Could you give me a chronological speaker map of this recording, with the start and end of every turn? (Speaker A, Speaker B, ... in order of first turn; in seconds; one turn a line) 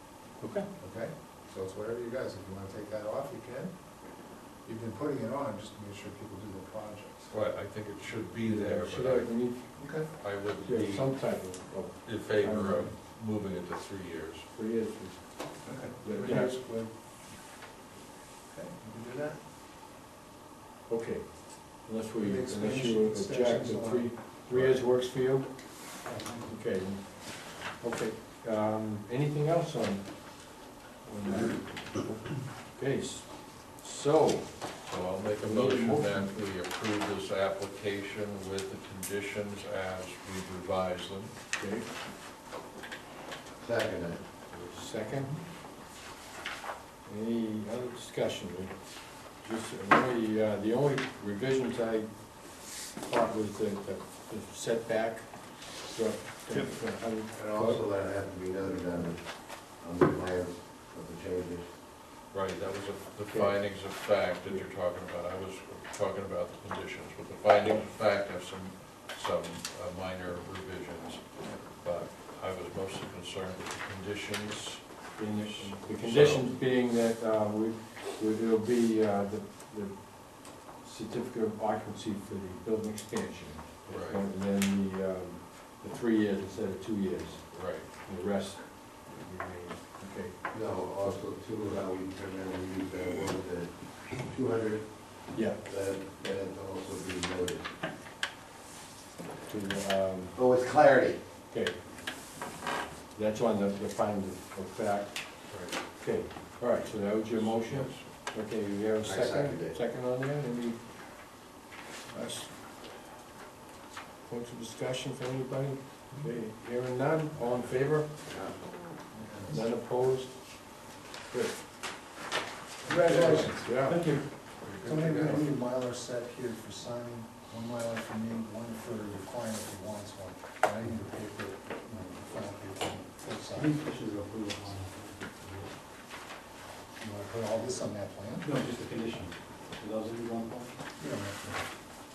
Speaker A: 0.4-0.7
Speaker B: 0.8-4.0
Speaker B: 4.6-7.3
Speaker C: 7.3-9.3
Speaker A: 8.4-9.8
Speaker B: 9.8-10.1
Speaker C: 10.1-11.1
Speaker A: 10.6-12.9
Speaker C: 12.0-14.5
Speaker A: 14.5-16.7
Speaker B: 15.6-16.9
Speaker B: 18.5-19.4
Speaker A: 20.9-26.0
Speaker B: 22.2-24.8
Speaker D: 26.0-26.6
Speaker A: 26.5-34.8
Speaker C: 34.8-41.3
Speaker A: 35.4-36.4
Speaker A: 41.6-41.9
Speaker E: 43.5-44.3
Speaker A: 44.5-45.4
Speaker A: 47.0-57.8
Speaker E: 57.3-61.7
Speaker C: 62.3-74.8
Speaker A: 63.2-63.6
Speaker A: 67.5-67.8
Speaker A: 75.2-91.2
Speaker C: 75.5-76.5
Speaker C: 83.9-84.2
Speaker C: 87.5-87.9
Speaker E: 90.5-97.7
Speaker A: 95.3-95.6
Speaker A: 99.5-100.4
Speaker E: 100.3-101.2
Speaker A: 101.5-101.8
Speaker A: 103.1-111.3
Speaker C: 105.5-105.9
Speaker C: 107.3-108.1
Speaker E: 109.0-109.8
Speaker A: 112.1-112.6
Speaker A: 114.2-118.3
Speaker E: 118.2-118.7
Speaker B: 119.1-119.6
Speaker A: 119.3-121.6
Speaker B: 122.8-123.7
Speaker A: 122.9-124.2
Speaker C: 123.9-125.5
Speaker B: 124.8-133.7
Speaker D: 133.5-135.7
Speaker B: 137.0-138.5
Speaker D: 138.4-140.8
Speaker B: 141.0-141.4
Speaker D: 141.4-141.6